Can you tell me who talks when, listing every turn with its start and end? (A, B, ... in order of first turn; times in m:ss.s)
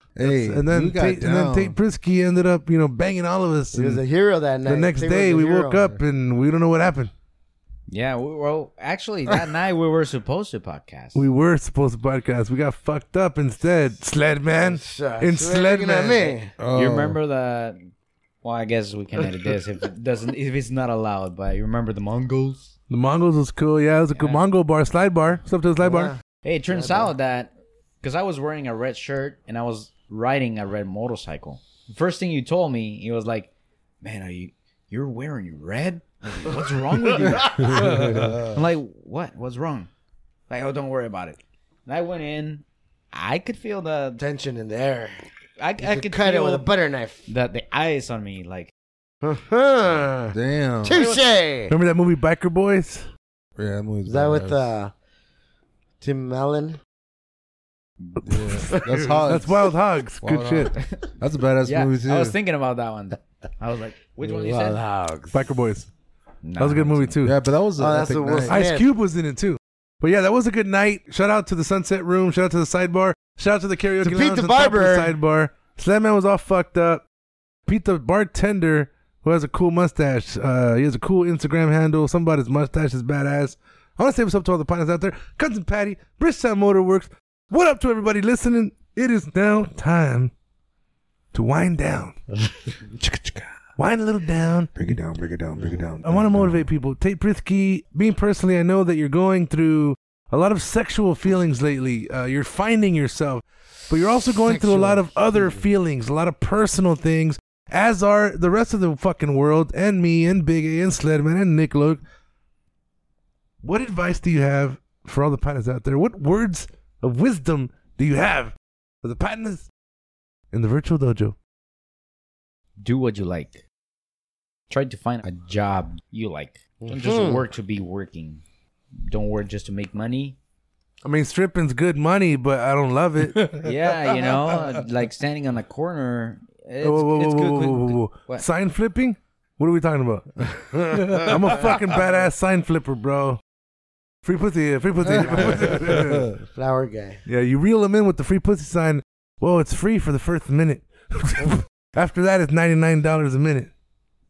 0:00.2-0:01.8 A
0:00.2-0:04.0 B
0:03.7-0:06.0 C
0:04.6-0:07.1 B
0:07.9-0:11.2 D
0:11.1-0:16.4 B
0:14.6-0:16.5 C
0:16.6-0:17.2 A
0:16.8-0:17.9 D
0:18.4-0:22.7 D
0:22.9-0:26.1 B
0:24.2-0:24.4 D
0:25.8-0:26.2 C
0:26.4-0:33.5 D
0:26.7-0:27.1 C
0:34.0-0:39.9 D
0:37.3-0:37.7 C
0:37.6-0:38.3 B
0:37.7-0:38.5 A
0:40.5-0:44.2 D
0:44.2-0:45.2 C
0:45.6-0:46.7 D
0:45.8-0:47.3 C
0:47.3-0:48.7 D
0:49.2-0:51.7 C
0:50.3-0:51.0 A
0:50.9-0:51.2 D
0:51.7-0:53.1 B
0:53.6-0:54.7 A
0:54.0-0:54.9 C
0:56.0-0:56.8 C
0:58.2-1:00.7 B
0:58.2-1:02.4 A
1:00.7-1:05.4 D
1:04.3-1:04.8 C
1:05.3-1:05.9 B
1:06.4-1:07.2 D
1:06.6-1:07.4 B
1:07.2-1:08.6 A
1:07.8-1:08.9 C
1:08.4-1:17.0 B
1:14.0-1:15.2 C
1:17.7-1:30.3 B
1:31.3-1:32.2 B
1:33.0-1:33.5 A
1:33.8-1:34.7 B
1:34.8-1:36.7 A
1:36.0-1:52.0 B
1:44.4-1:45.6 C
1:53.6-1:59.7 B
2:00.5-2:01.4 B
2:02.8-2:03.6 D
2:04.7-2:08.4 D
2:06.8-2:07.5 C
2:09.0-2:10.4 D
2:11.0-2:13.6 B
2:13.3-2:14.6 A
2:13.6-2:18.5 D
2:16.8-2:23.4 B
2:20.7-2:21.2 C
2:21.1-2:21.8 A
2:24.2-2:26.3 B
2:25.1-2:26.4 A
2:25.1-2:25.8 C
2:26.4-2:27.2 C
2:27.3-2:33.7 B